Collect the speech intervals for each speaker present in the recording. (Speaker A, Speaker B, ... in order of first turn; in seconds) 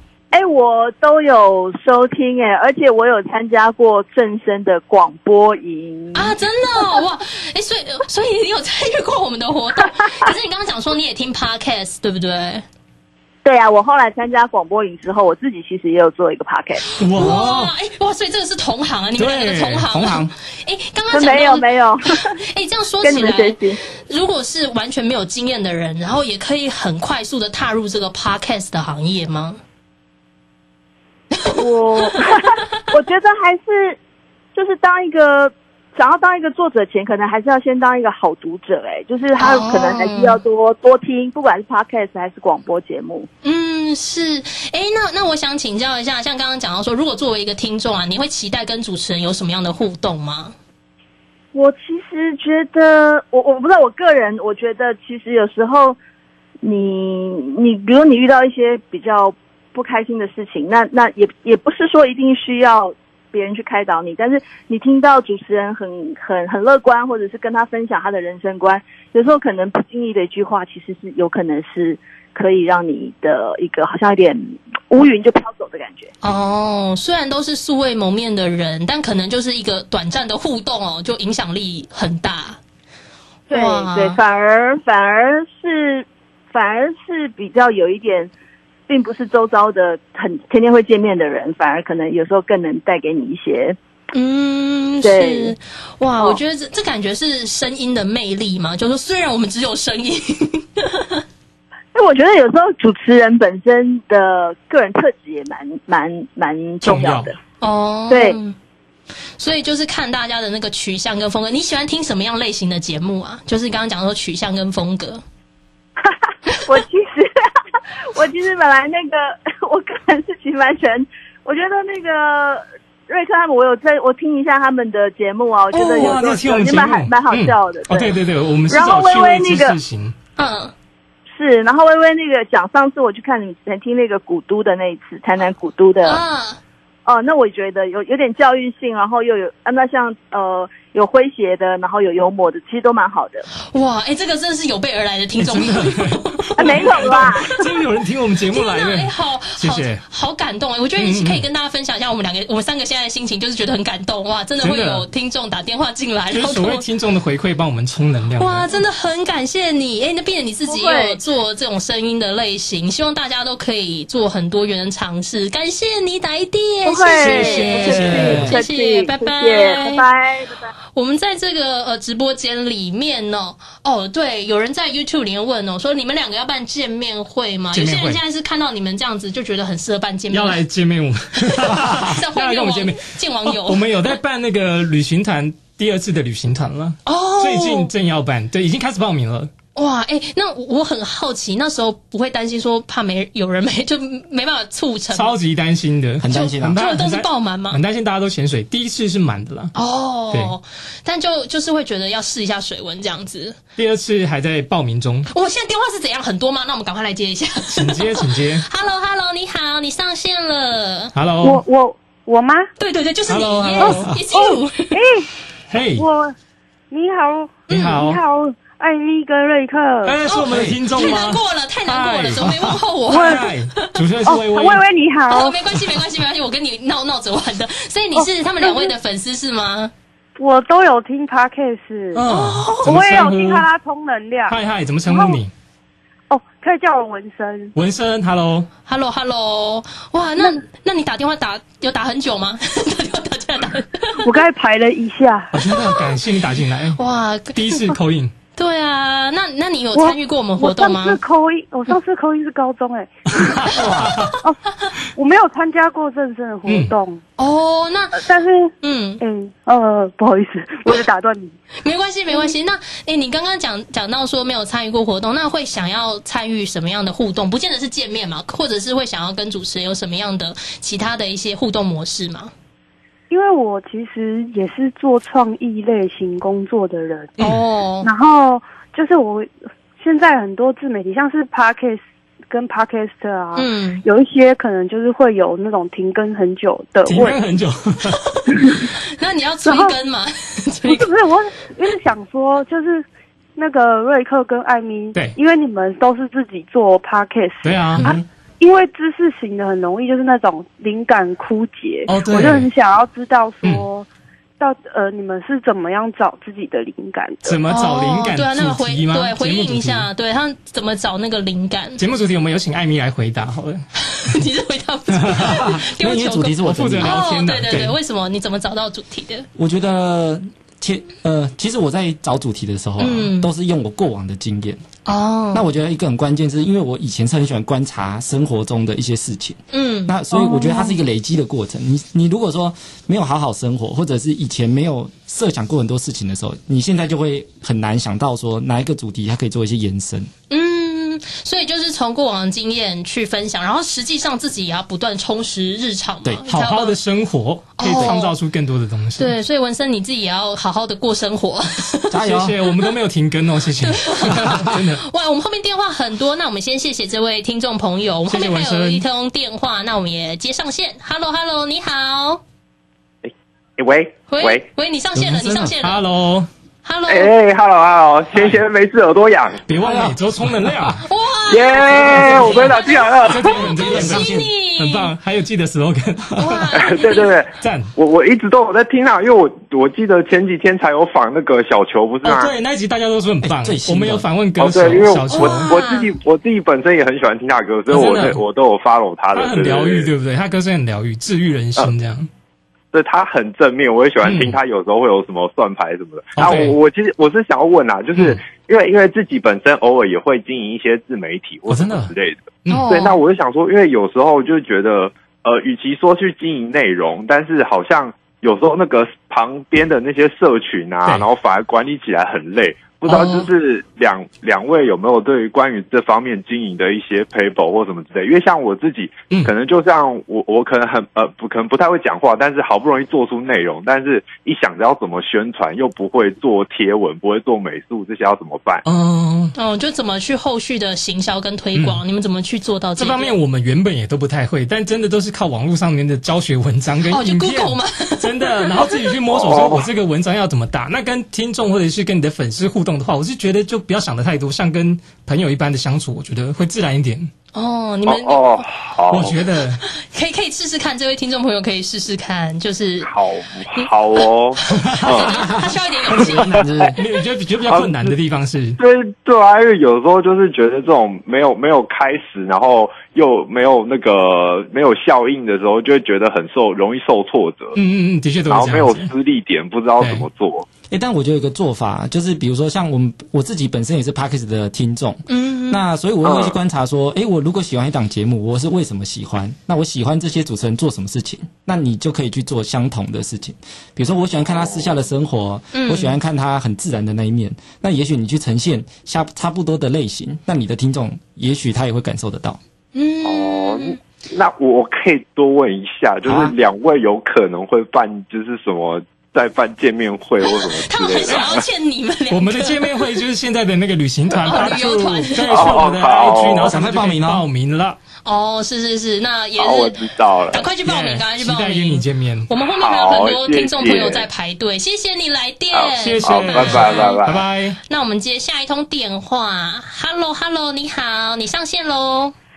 Speaker A: 0.3-6.3, 13.4-16.8, 21.1-22.3, 23.0-23.8, 31.6-34.0, 34.5-43.3, 51.5-56.0, 56.6-76.1, 83.5-88.3, 88.9-93.8, 95.0-95.5, 101.9-107.3, 108.1-108.4, 116.0-117.5, 118.1-128.2, 128.7-129.7, 131.3-136.2, 137.1-143.4, 146.6-147.6, 160.7-161.2, 166.8-170.7
Speaker B: 6.1-12.6, 17.1-29.6, 31.4-32.1, 39.4-40.4, 43.4-50.5, 76.2-82.6, 83.5-84.2, 94.1-101.2, 107.6-108.5, 109.4-115.2, 130.4-130.7, 136.0-136.6, 143.7-147.2, 148.5-156.8, 158.4-170.0, 170.9-180.6, 181.4-183.9, 187.1-187.9, 189.7-195.3, 196.3-197.8, 199.7-203.6, 205.3-211.1, 212.8-215.0, 217.7-218.0, 220.3-223.9, 225.3-229.9, 232.2-233.0, 238.9-244.3, 245.6-246.0, 246.9-247.7, 248.6-251.2, 257.4-258.2, 258.8-259.2, 261.8-272.5, 277.4-278.1, 283.5-284.0, 289.2-291.1, 307.7-312.0, 314.0-319.5, 323.0-323.5, 325.0-325.6, 329.7-330.9, 340.5-346.9, 347.8-348.4, 349.2-352.1, 353.8-362.4, 364.3-366.0, 366.8-367.3, 371.0-375.1, 376.4-377.3, 385.3-386.1, 402.7-403.2, 429.5-433.3, 437.1-438.9, 447.5-448.7, 449.8-453.1, 453.7-456.6, 475.3-475.8, 485.7-486.1, 492.9-494.0, 500.4-503.0, 504.4-505.7, 508.2-517.2, 517.9-522.3
Speaker C: 17.0-17.7, 19.2-19.8, 106.8-107.3, 125.7-130.2, 145.4-150.0, 151.0-151.4, 154.6-155.1, 156.3-158.8, 167.2-168.5, 177.7-178.2, 180.3-189.5, 195.1-199.7, 203.8-205.3, 207.7-208.7, 211.1-211.6, 213.3-214.1, 215.7-216.1, 217.7-218.2, 220.0-224.8, 232.1-233.7, 234.5-235.5, 237.7-238.7, 245.5-247.0, 247.5-248.3, 253.4-254.3, 256.7-256.9, 287.1-288.7, 297.6-298.1, 302.1-302.7, 307.4-310.1, 312.0-313.8, 315.2-315.7, 316.6-318.0, 346.5-349.3, 352.2-355.0, 358.3-359.0, 365.2-366.5, 369.7-371.0, 372.1-372.6, 373.2-376.6, 377.6-377.9, 382.2-385.7, 387.9-388.4, 389.3-392.3, 394.2-394.6, 396.3-396.8, 401.7-402.1, 413.1-413.5, 428.8-429.5, 431.7-432.0, 433.0-447.3, 449.1-449.8, 454.7-455.0, 456.9-458.8, 467.8-469.1, 470.0-470.3, 502.3-508.0, 510.8-512.5, 515.9-517.8
Speaker D: 19.8-20.3, 168.1-168.5, 196.2-196.8, 220.5-220.8, 253.8-254.1, 315.4-317.2, 319.6-324.8, 325.5-340.3, 346.2-346.8, 352.1-352.6, 369.8-370.9, 373.6-374.5, 383.4-384.3, 456.1-457.0, 470.9-492.6, 506.6-507.4
Speaker E: 211.4-212.7, 213.8-215.3, 216.0-216.3, 216.9-220.2, 223.1-223.5, 224.2-225.6, 228.1-228.9, 230.4-232.2, 232.8-235.4, 236.3-237.7, 244.2-245.5, 249.9-254.6, 255.1-257.2, 258.1-261.5, 273.3-277.4, 278.0-287.4, 289.6-290.0, 290.8-293.0, 293.6-304.1, 304.6-307.6
Speaker F: 363.2-364.6, 367.1-369.6, 371.5-373.6, 376.7-382.5, 384.6-390.1, 392.9-428.8, 439.3-439.9, 448.1-449.4, 453.0-455.4, 456.3-456.9, 457.7-458.1, 458.8-467.8, 468.5-470.6, 476.2-476.5, 493.2-501.6, 505.4-506.8, 509.6-510.6, 512.7-514.2, 515.7-517.4